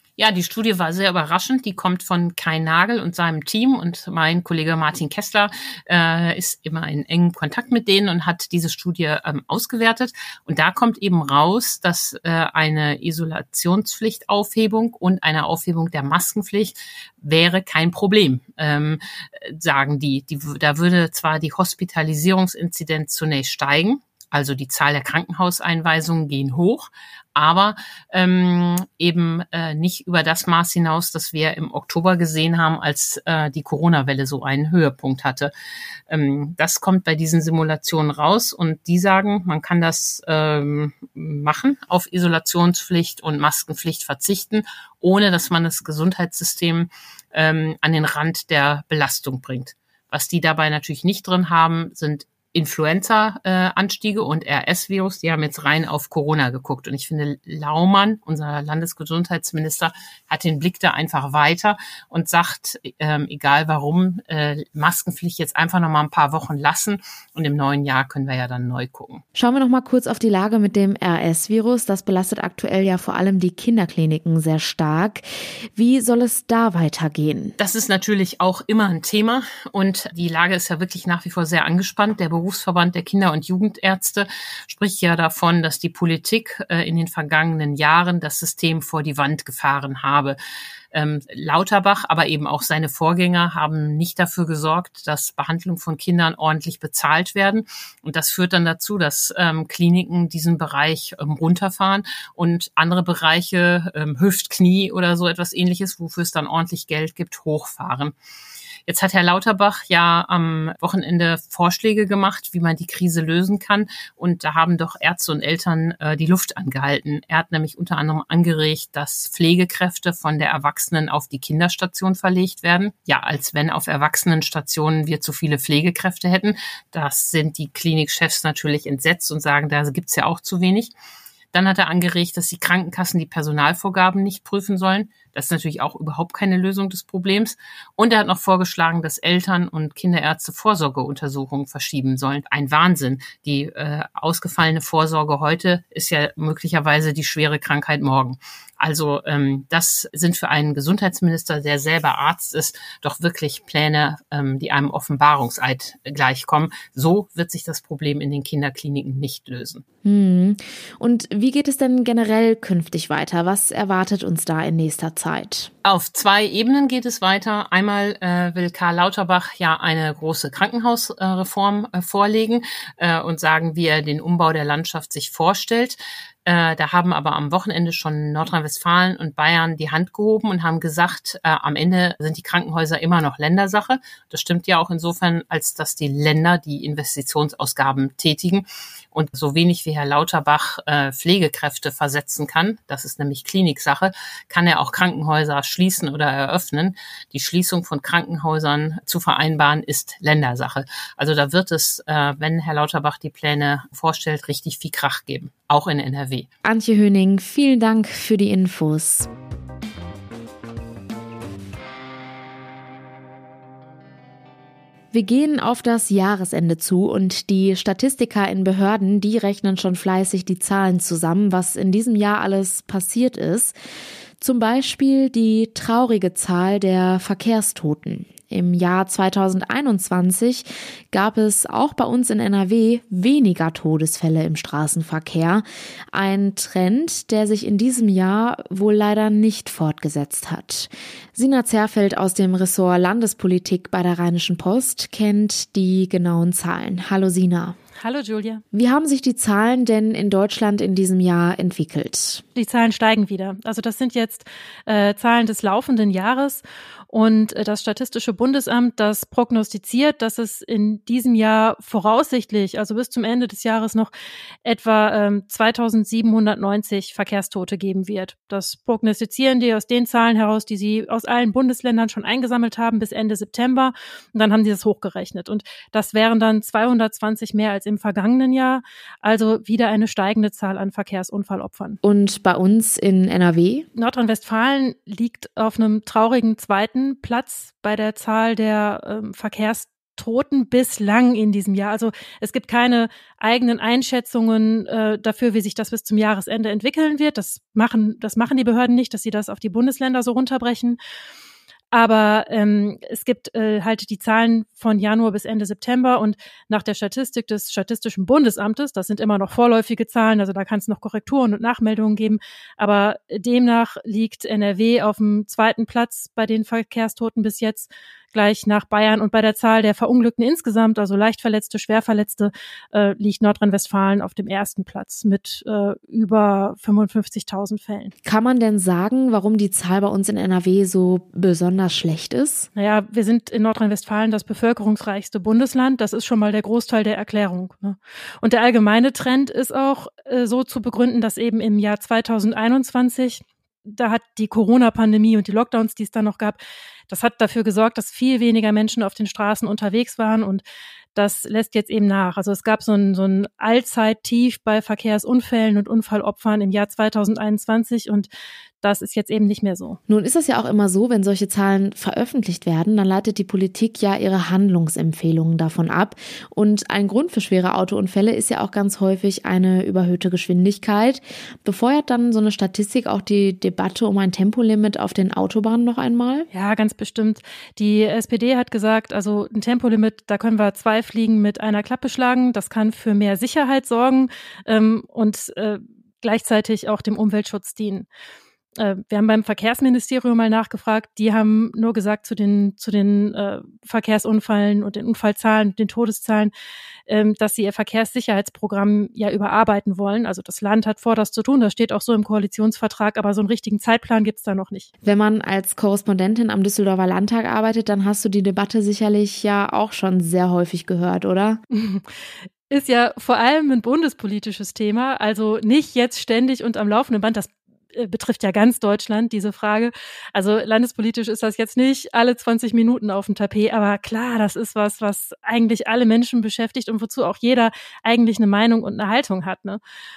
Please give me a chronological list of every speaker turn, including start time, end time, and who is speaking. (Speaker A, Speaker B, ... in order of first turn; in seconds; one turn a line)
Speaker A: 0.2-35.5
Speaker A: 36.1-69.2
Speaker B: 69.3-75.2
Speaker B: 75.7-77.5
Speaker A: 77.6-90.4
Speaker A: 90.9-108.1
Speaker A: 108.8-130.9
Speaker A: 131.5-159.8
Speaker B: 160.0-165.7
Speaker A: 165.8-206.5
Speaker B: 206.6-209.3
Speaker B: 215.1-223.8
Speaker B: 224.4-247.8
Speaker C: 248.0-248.6
Speaker B: 248.7-252.4
Speaker C: 252.5-264.1
Speaker C: 264.6-282.0
Speaker B: 282.0-283.9
Speaker C: 283.9-301.0
Speaker C: 301.9-328.1
Speaker B: 328.2-332.7
Speaker C: 332.8-350.6
Speaker C: 351.1-358.3
Speaker C: 358.8-360.0
Speaker B: 360.1-376.5
Speaker C: 376.5-388.1
Speaker C: 388.8-396.5
Speaker C: 397.1-404.9
Speaker B: 405.0-411.6
Speaker C: 411.7-412.1
Speaker C: 412.7-429.8